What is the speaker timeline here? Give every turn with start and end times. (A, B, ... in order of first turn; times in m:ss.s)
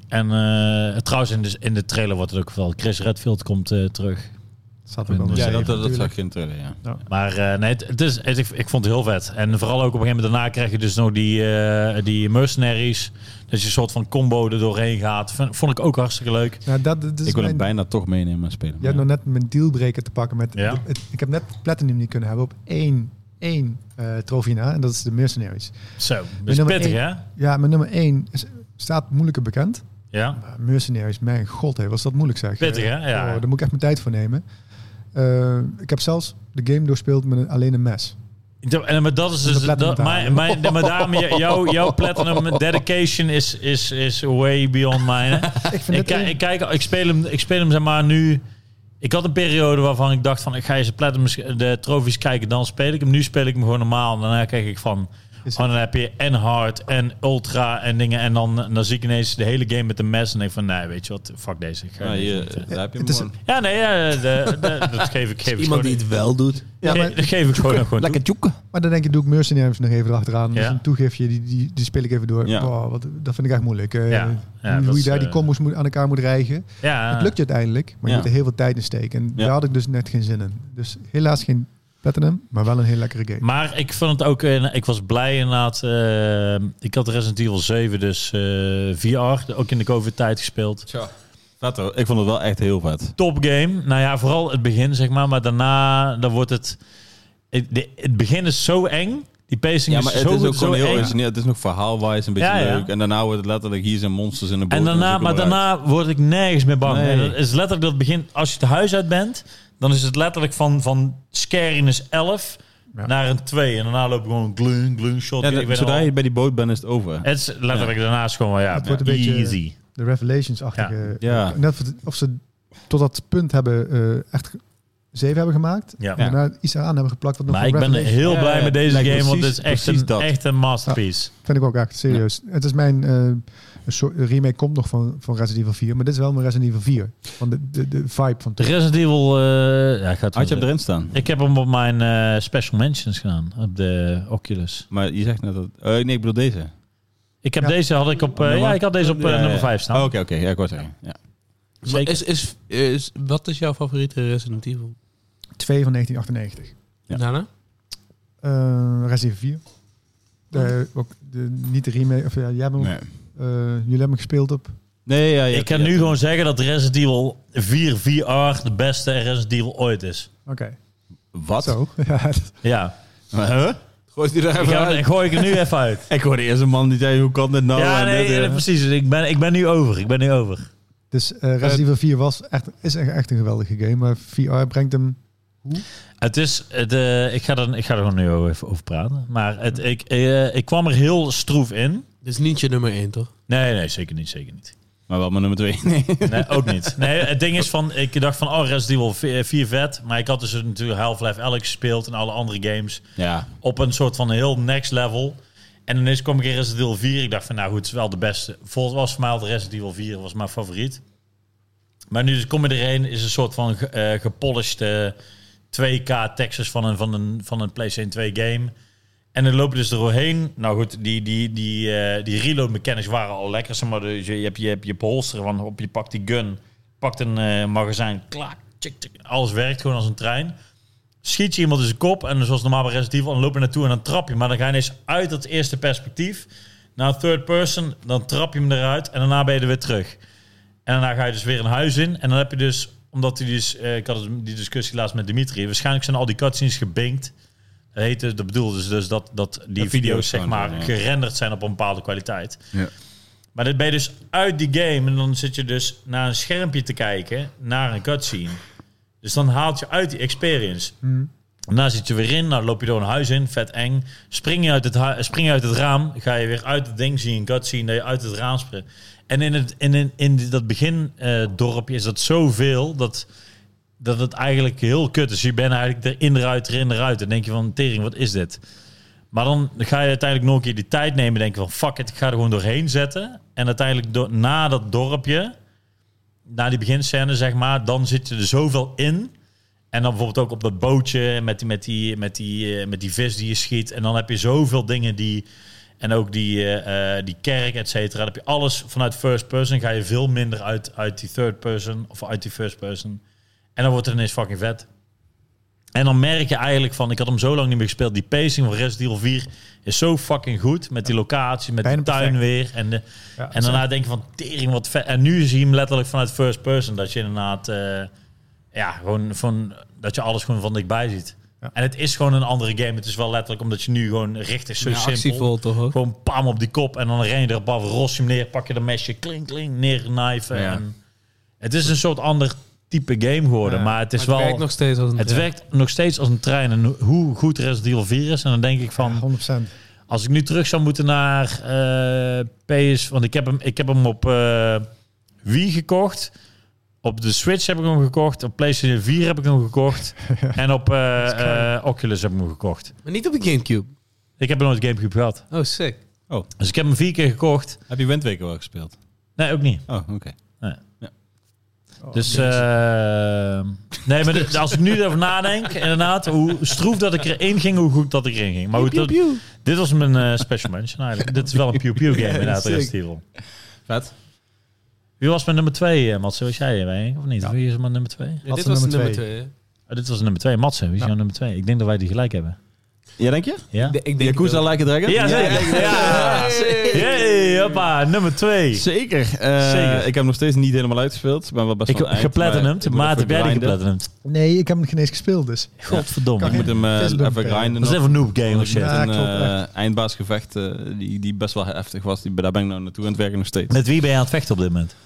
0:00.1-0:04.3 A
0:04.9-0:06.1 B
0:05.1-0:06.0 A
0:05.3-0:06.8 C
0:07.1-0:16.6 A
0:16.6-0:17.7 B
0:17.2-0:19.0 C
0:18.8-0:25.8 B
0:20.6-0:20.8 A
0:26.0-0:27.2 A
0:26.4-0:34.4 B
0:30.1-0:30.4 A
0:32.6-0:33.4 A
0:35.1-0:38.1 B
0:38.6-0:48.4 A
0:39.4-0:41.0 B
0:45.7-0:46.4 B
0:49.0-1:02.7 A
1:02.0-1:03.4 C
1:02.7-1:03.3 B
1:03.4-1:06.0 A
1:05.5-1:06.7 D
1:06.8-1:08.6 C
1:06.8-1:07.2 B
1:06.8-1:08.2 A
1:08.7-1:23.4 B
1:12.4-1:12.7 C
1:14.1-1:15.4 A
1:16.8-1:17.3 A
1:23.4-1:30.9 A
1:30.9-1:33.2 C
1:33.2-1:36.8 A
1:37.5-1:41.1 A
1:39.9-1:45.6 C
1:42.4-1:42.9 A
1:44.7-1:56.1 A
1:46.8-1:47.4 C
1:55.4-1:57.9 C
1:57.2-1:59.7 A
1:58.7-2:09.2 B
2:01.2-2:01.6 C
2:07.5-2:11.3 A
2:08.2-2:10.3 C
2:10.8-2:18.7 B
2:18.6-2:24.8 A
2:20.3-2:21.2 C
2:24.9-2:26.7 C
2:27.4-2:30.1 A
2:28.4-2:31.2 C
2:31.8-2:35.0 D
2:31.9-2:32.1 A
2:35.6-2:36.7 B
2:37.1-2:37.5 D
2:38.4-2:39.6 B
2:40.5-2:44.7 B
2:42.8-2:43.1 C
2:45.0-2:46.2 C
2:45.5-2:50.3 A
2:50.4-2:50.8 B
2:51.3-2:51.8 C
2:51.6-2:52.6 B
2:52.6-2:52.9 A
2:53.3-2:53.8 C
2:54.2-2:55.5 D
2:54.6-2:56.0 A
2:56.1-2:58.6 C
2:57.8-3:00.7 A
3:01.1-3:05.8 B
3:06.2-3:12.0 A
3:12.2-3:13.3 D
3:13.5-3:14.7 A
3:15.1-3:17.0 C
3:16.2-3:23.0 A
3:23.2-3:23.5 C
3:23.6-3:31.0 A
3:32.1-3:35.2 A
3:35.7-3:38.7 A
3:39.3-3:50.6 A
3:51.2-4:00.2 A
4:00.8-4:07.3 A
4:07.9-4:12.6 A
4:09.8-4:10.9 C
4:13.5-4:18.6 A
4:19.2-4:21.0 A
4:21.0-4:21.3 B
4:21.7-4:33.2 A
4:34.0-4:38.6 A
4:39.3-4:45.5 A
4:46.5-4:49.3 A
4:49.9-4:55.4 A
4:56.0-5:03.2 A
5:03.8-5:04.8 A
5:05.9-5:18.1 A
5:11.8-5:12.4 B
5:13.4-5:13.8 B
5:18.7-5:31.0 A
5:24.8-5:26.0 D
5:30.5-5:30.8 C
5:31.6-5:34.6 A
5:33.6-5:34.0 B
5:34.2-5:35.5 D
5:35.2-5:39.2 A
5:39.0-5:39.7 B
5:40.1-5:44.9 A
5:45.4-5:46.3 A
5:47.0-5:52.9 A
5:50.3-5:50.6 B
5:51.2-5:51.7 B
5:53.0-5:53.9 D
5:54.4-5:55.4 A
5:55.5-5:56.0 D
5:56.6-5:57.8 A
5:57.9-5:59.0 C
5:59.4-5:59.8 A
5:59.9-6:00.4 C
6:02.0-6:02.4 B
6:02.1-6:13.2 A
6:02.3-6:02.6 D
6:08.7-6:09.4 D
6:12.5-6:12.8 C
6:13.9-6:14.1 C
6:15.2-6:18.4 A
6:18.4-6:19.5 D
6:18.4-6:19.2 B
6:19.9-6:22.6 A
6:23.2-6:27.3 C
6:23.7-6:24.0 A
6:23.8-6:27.8 D
6:25.0-6:28.8 A
6:28.7-6:33.8 C
6:29.6-6:30.1 A
6:31.9-6:34.1 A
6:34.2-6:38.0 B
6:35.8-6:36.7 A
6:36.4-6:43.8 C
6:37.8-6:38.9 A
6:38.6-6:39.6 B
6:43.7-6:44.9 A